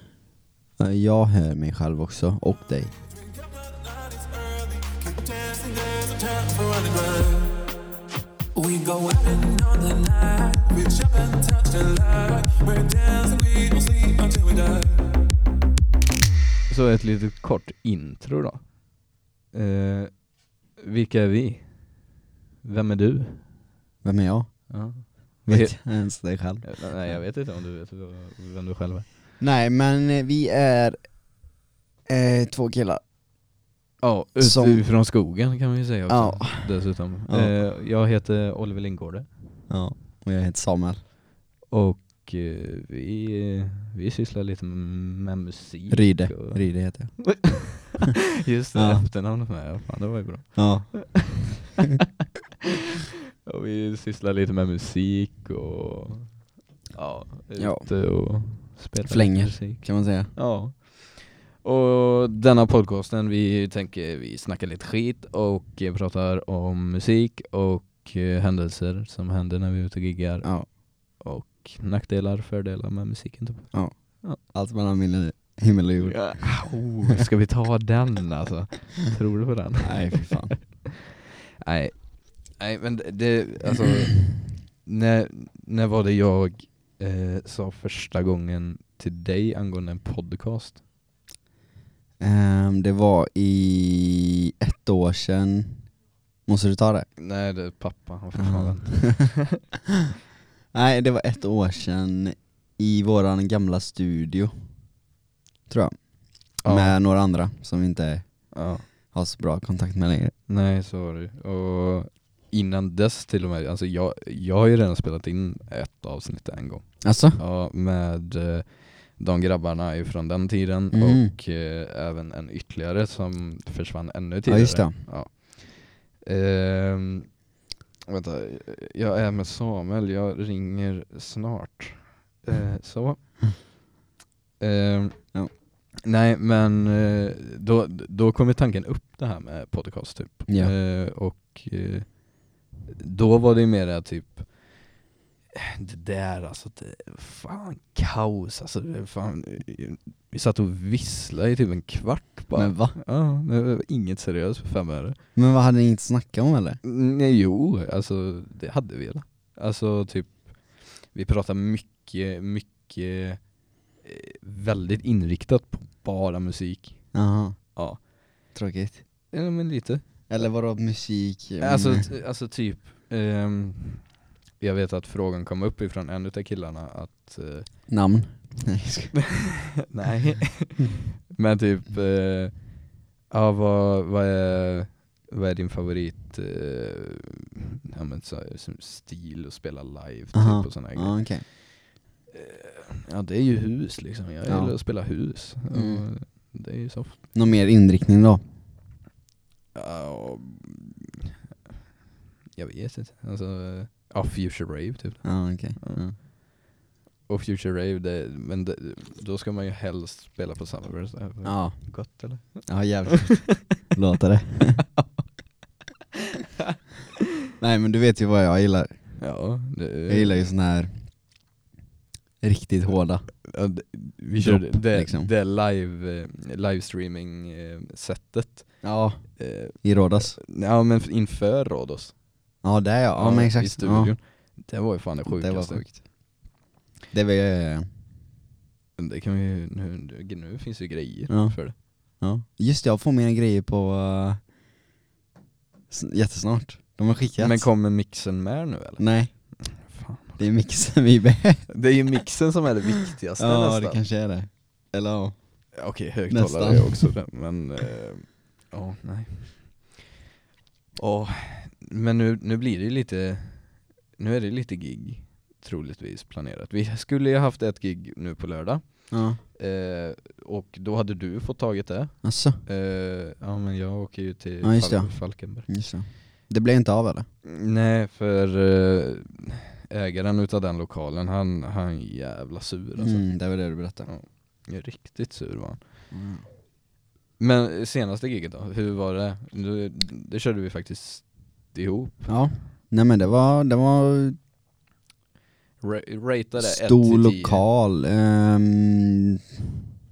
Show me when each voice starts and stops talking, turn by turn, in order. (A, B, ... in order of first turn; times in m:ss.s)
0:00.8-0:02.9 A
0:03.1-0:07.7 B
0:08.5-0:15.2 B
0:16.7-0:18.8 C
0:19.5-0:22.1 C
0:22.6-0:23.5 C
0:24.0-0:27.2 A
0:24.7-0:25.8 C
0:26.6-0:29.1 C
0:29.4-0:31.1 A
0:32.1-0:33.0 A
0:34.0-0:39.3 C
0:34.4-0:34.8 A
0:36.1-0:37.6 A
0:39.7-0:41.0 A
0:41.7-0:46.6 C
0:45.9-0:47.6 A
0:47.2-0:51.4 C
0:48.8-0:49.0 A
0:50.6-0:51.5 A
0:53.5-0:56.4 C
0:56.9-1:14.4 C
0:57.6-0:57.9 A
0:59.1-1:00.3 A
1:10.4-1:10.7 A
1:13.7-1:16.8 A
1:16.0-1:20.8 C
1:19.8-1:20.6 A
1:21.6-1:30.8 C
1:32.2-1:35.8 A
1:36.5-1:37.1 A
1:37.2-1:39.6 C
1:38.4-1:39.2 A
1:40.7-1:44.5 A
1:45.7-1:50.3 A
1:46.6-1:47.0 C
1:48.5-1:48.8 C
1:50.5-2:07.4 C
1:57.0-1:57.4 A
2:00.9-2:01.4 A
2:04.5-2:05.0 A
2:08.1-2:13.7 C
2:14.6-2:15.4 C
2:16.0-2:22.2 C
2:20.5-2:20.7 A
2:22.9-2:24.9 C
2:25.6-2:35.2 C
2:32.5-2:33.0 A
2:35.4-2:36.8 A
2:36.8-2:47.1 C
2:47.1-2:47.6 A
2:47.8-2:48.0 C
2:48.5-2:49.0 A
2:49.3-2:50.4 C
2:50.3-2:52.1 A
2:51.6-2:57.8 C
2:57.9-2:59.2 A
2:59.9-3:11.5 C
3:10.3-3:11.5 A
3:12.3-3:17.2 C
3:14.5-3:14.8 A
3:15.7-3:16.1 A
3:17.3-3:18.4 A
3:19.7-3:21.2 C
3:22.6-3:26.0 C
3:25.2-3:26.2 A
3:27.3-3:33.8 C
3:31.4-3:32.0 A
3:32.6-3:34.8 A
3:37.6-3:39.0 A
3:39.2-3:40.3 C
3:40.1-3:40.9 A
3:42.4-3:43.2 A
3:43.5-3:48.8 C
3:44.4-3:45.3 A
3:48.8-3:50.4 A
3:49.4-3:52.1 C
3:52.6-3:54.2 A
3:53.2-3:56.0 C
3:55.3-3:56.0 A
3:57.1-3:57.9 A
3:59.0-4:01.8 C
4:01.3-4:04.4 A
4:05.9-4:07.7 A
4:07.4-4:10.4 C
4:09.0-4:09.3 A
4:10.4-4:11.7 A
4:11.7-4:14.0 C
4:13.4-4:15.4 A
4:15.8-4:20.0 C
4:16.3-4:17.1 A
4:21.0-4:35.7 C
4:29.1-4:29.4 A
4:32.2-4:32.6 A
4:34.6-4:37.3 A
4:37.4-4:43.2 C
4:43.0-4:44.1 A
4:44.1-4:45.8 C
4:46.1-4:46.4 A
4:47.4-4:52.4 C
4:52.3-4:54.4 A
4:55.8-4:57.6 C
4:56.6-4:59.4 A